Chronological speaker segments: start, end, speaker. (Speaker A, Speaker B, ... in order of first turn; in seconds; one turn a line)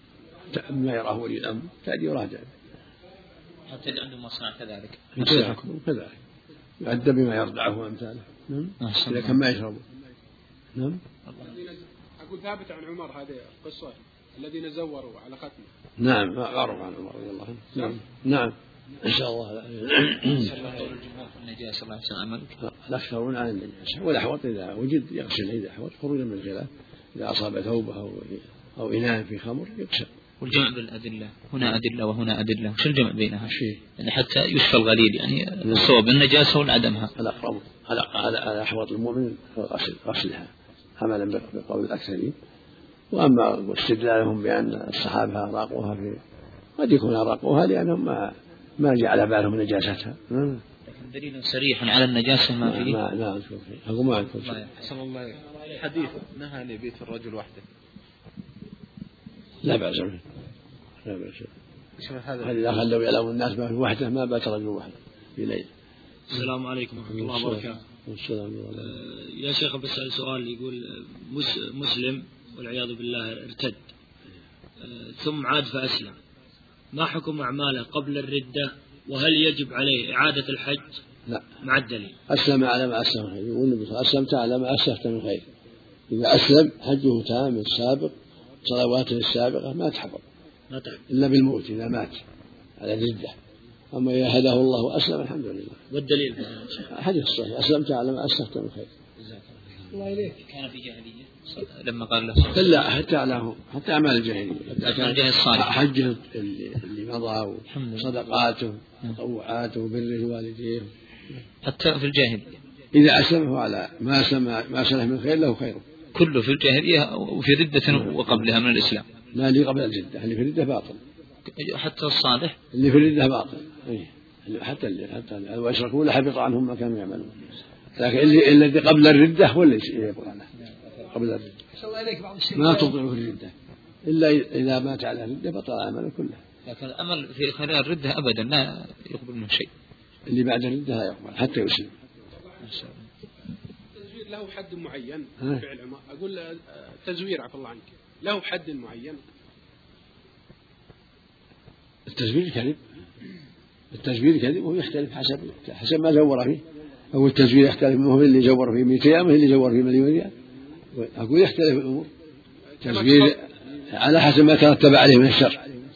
Speaker A: 0.5-2.5
Speaker B: 3.7-5.7
Speaker A: 5.2-6.2
Speaker A: 6.8-9.8
Speaker B: 8.8-9.4
Speaker A: 10.8-11.0
Speaker B: 11.3-11.5
Speaker C: 11.5-15.7
Speaker A: 16.0-20.5
Speaker B: 20.2-22.5
Speaker A: 22.6-30.1
Speaker B: 30.4-37.1
Speaker A: 33.5-33.8
Speaker A: 37.2-42.4
Speaker A: 43.1-46.2
Speaker A: 46.8-50.6
Speaker B: 50.9-53.0
Speaker A: 52.6-54.6
Speaker B: 54.4-54.8
Speaker D: 55.8-57.6
Speaker A: 59.6-60.2
Speaker A: 61.0-61.5
Speaker D: 62.0-62.4
Speaker A: 62.4-65.7
Speaker E: 66.3-67.8
Speaker A: 67.2-68.9
Speaker E: 68.8-73.8
Speaker E: 74.8-76.2
Speaker E: 76.9-81.0
Speaker E: 81.6-82.2
Speaker A: 82.3-85.5
Speaker A: 86.1-88.1
Speaker A: 88.7-90.2
Speaker E: 90.7-91.0
Speaker A: 91.1-92.2
Speaker A: 92.8-93.4
Speaker A: 93.9-95.8
Speaker E: 95.9-96.8
Speaker A: 96.7-98.9
Speaker E: 99.9-100.4
Speaker B: 100.4-102.8
Speaker A: 102.5-110.9
Speaker B: 104.8-105.8
Speaker B: 107.7-108.1
Speaker B: 111.6-112.6
Speaker A: 112.9-115.8
Speaker B: 116.1-119.1
Speaker A: 119.3-121.0
Speaker B: 121.5-122.6
Speaker A: 122.7-130.5
Speaker A: 131.1-131.5
Speaker A: 132.5-133.5
Speaker A: 134.1-136.4
Speaker B: 136.7-139.7
Speaker A: 140.3-141.9
Speaker B: 142.6-143.1
Speaker C: 143.9-149.2
Speaker A: 152.1-152.8
Speaker A: 153.9-160.3
Speaker A: 160.9-162.1
Speaker A: 162.8-163.4
Speaker C: 162.9-163.3
Speaker A: 163.9-165.7